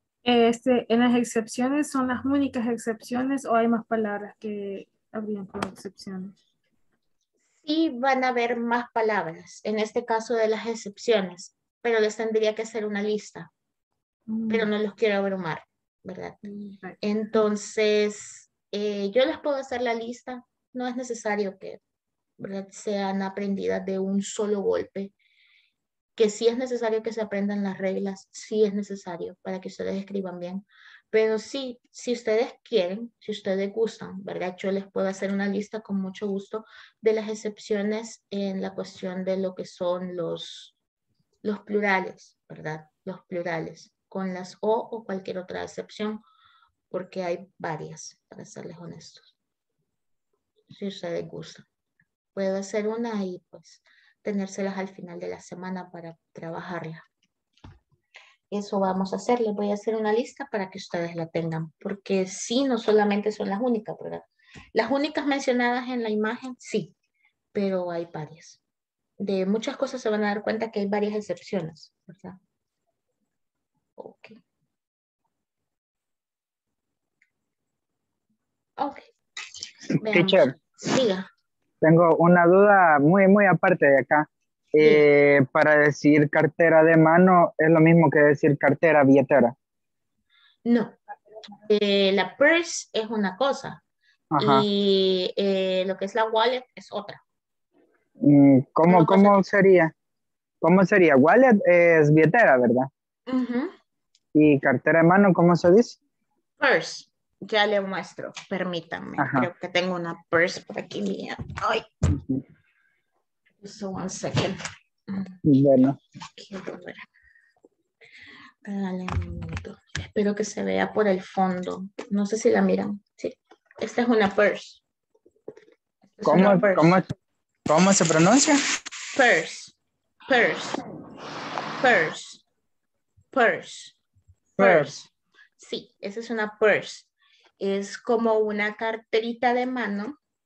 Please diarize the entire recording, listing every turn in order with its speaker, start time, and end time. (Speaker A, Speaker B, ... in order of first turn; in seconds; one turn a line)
Speaker A: 0.2-6.4
Speaker B: 7.6-13.5
Speaker A: 14.3-14.7
Speaker B: 14.5-16.5
Speaker A: 16.5-17.0
Speaker B: 17.0-21.8
Speaker B: 22.4-25.1
Speaker B: 26.2-40.8
Speaker B: 41.4-46.2
Speaker B: 46.9-49.3
Speaker B: 50.7-51.6
Speaker B: 52.4-57.0
Speaker B: 58.5-66.9
Speaker B: 67.5-68.6
Speaker B: 69.2-72.4
Speaker B: 74.0-74.4
Speaker B: 78.8-79.1
Speaker B: 80.0-81.3
Speaker C: 80.1-80.5
Speaker C: 81.8-89.5
Speaker B: 84.8-85.1
Speaker B: 90.7-91.0
Speaker B: 91.7-93.8
Speaker C: 94.3-94.7
Speaker B: 94.4-97.2
Speaker C: 98.2-99.9
Speaker B: 98.9-99.4
Speaker C: 100.6-102.9
Speaker B: 103.3-103.7
Speaker C: 104.3-106.0
Speaker B: 106.6-111.8
Speaker C: 109.2-109.5
Speaker C: 112.2-112.4
Speaker B: 113.6-115.4
Speaker C: 115.5-116.0
Speaker B: 116.4-117.0
Speaker B: 118.6-124.8
Speaker B: 126.1-127.0
Speaker C: 126.2-127.1
Speaker C: 127.7-128.6
Speaker B: 129.1-129.8
Speaker B: 130.3-130.8
Speaker B: 131.8-132.4
Speaker B: 133.3-134.0
Speaker C: 134.6-135.1
Speaker B: 134.6-135.0
Speaker B: 135.6-140.2